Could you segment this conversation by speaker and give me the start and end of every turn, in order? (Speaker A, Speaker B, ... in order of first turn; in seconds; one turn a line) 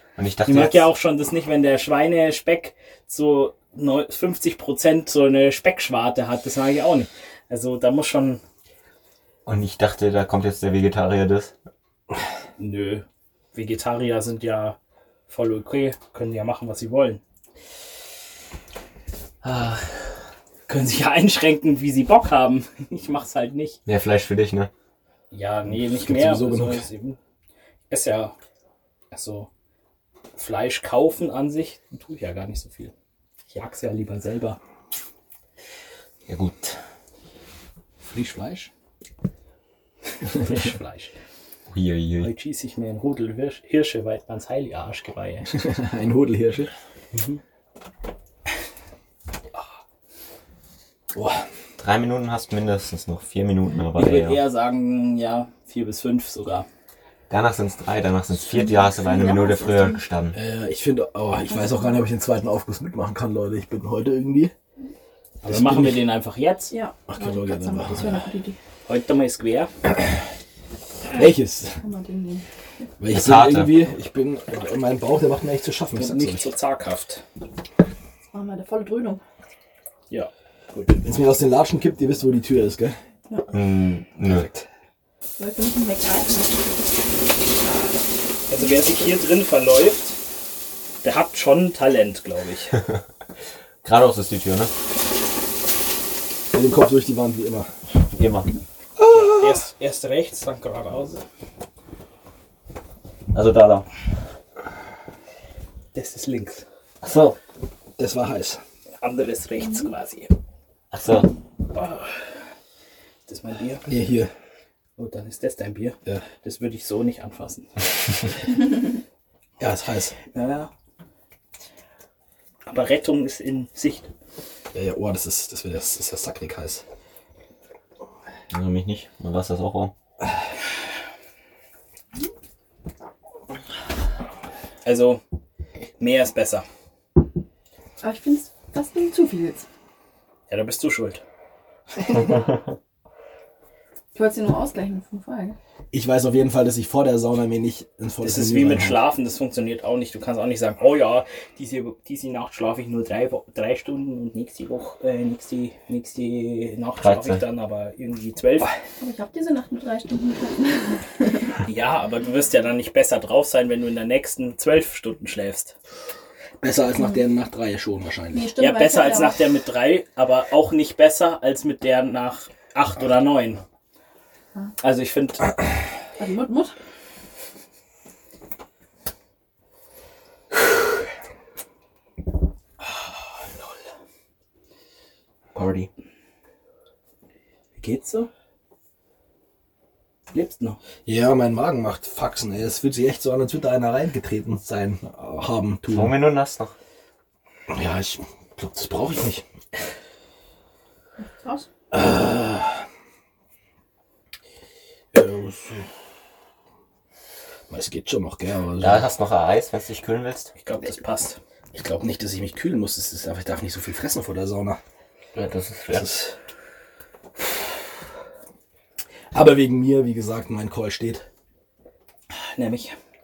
Speaker A: 0.2-0.9
Speaker B: 0.5-8.4
Speaker A: 9.5-11.5
Speaker B: 12.6-14.8
Speaker B: 15.3-17.2
Speaker A: 19.4-20.1
Speaker B: 20.7-23.8
Speaker A: 23.9-24.7
Speaker B: 25.3-27.2
Speaker C: 25.7-26.8
Speaker B: 27.9-28.4
Speaker B: 29.1-29.5
Speaker B: 30.4-32.9
Speaker B: 33.5-34.6
Speaker A: 36.3-36.8
Speaker C: 38.0-38.7
Speaker B: 40.3-41.1
Speaker A: 41.7-42.3
Speaker B: 42.2-45.5
Speaker C: 45.5-46.7
Speaker B: 47.1-47.4
Speaker C: 51.1-51.4
Speaker A: 51.8-54.4
Speaker B: 54.0-56.7
Speaker A: 57.3-60.4
Speaker D: 58.5-60.0
Speaker C: 60.3-64.5
Speaker B: 65.4-66.7
Speaker C: 65.4-66.0
Speaker D: 66.7-68.6
Speaker C: 67.1-68.3
Speaker B: 68.9-69.7
Speaker C: 71.1-71.8
Speaker D: 71.8-72.5
Speaker C: 73.0-76.5
Speaker A: 73.1-73.8
Speaker B: 76.0-77.2
Speaker D: 78.3-79.2
Speaker B: 80.1-81.0
Speaker C: 81.0-83.0
Speaker A: 83.5-84.5
Speaker D: 85.4-87.0
Speaker B: 88.5-90.2
Speaker B: 91.0-92.8
Speaker A: 93.8-94.7
Speaker C: 96.5-97.7
Speaker A: 98.0-98.5
Speaker C: 99.0-99.6
Speaker B: 99.1-101.2
Speaker A: 103.3-103.9
Speaker B: 105.9-106.7
Speaker A: 107.0-107.4
Speaker C: 108.0-108.6
Speaker B: 109.0-110.3
Speaker A: 110.9-111.3
Speaker B: 111.7-112.2
Speaker B: 113.3-113.9
Speaker C: 113.9-114.3
Speaker B: 115.0-117.9
Speaker C: 119.6-120.2
Speaker B: 120.3-120.7
Speaker B: 122.7-124.1
Speaker C: 124.7-126.8
Speaker A: 128.5-129.9
Speaker B: 134.8-135.2
Speaker B: 136.0-136.7
Speaker D: 138.0-139.7
Speaker B: 140.5-141.2
Speaker D: 144.1-145.6
Speaker C: 145.9-149.0
Speaker B: 148.2-158.7
Speaker A: 157.0-157.4
Speaker D: 159.0-161.4
Speaker B: 161.7-165.7
Speaker C: 166.6-168.5
Speaker D: 168.3-169.4
Speaker B: 168.6-173.6
Speaker B: 174.8-175.5
Speaker D: 176.2-176.7
Speaker A: 185.5-185.9
Speaker B: 187.8-188.3
Speaker B: 190.3-190.8
Speaker C: 191.1-196.3
Speaker A: 195.9-196.8
Speaker C: 197.7-199.4
Speaker D: 201.2-201.7
Speaker C: 201.9-202.7
Speaker C: 205.1-205.9
Speaker C: 207.7-209.1
Speaker A: 208.8-210.5
Speaker B: 210.6-211.4
Speaker C: 211.7-214.8
Speaker A: 215.3-216.2
Speaker C: 215.9-216.3
Speaker C: 219.3-221.3
Speaker B: 222.3-223.0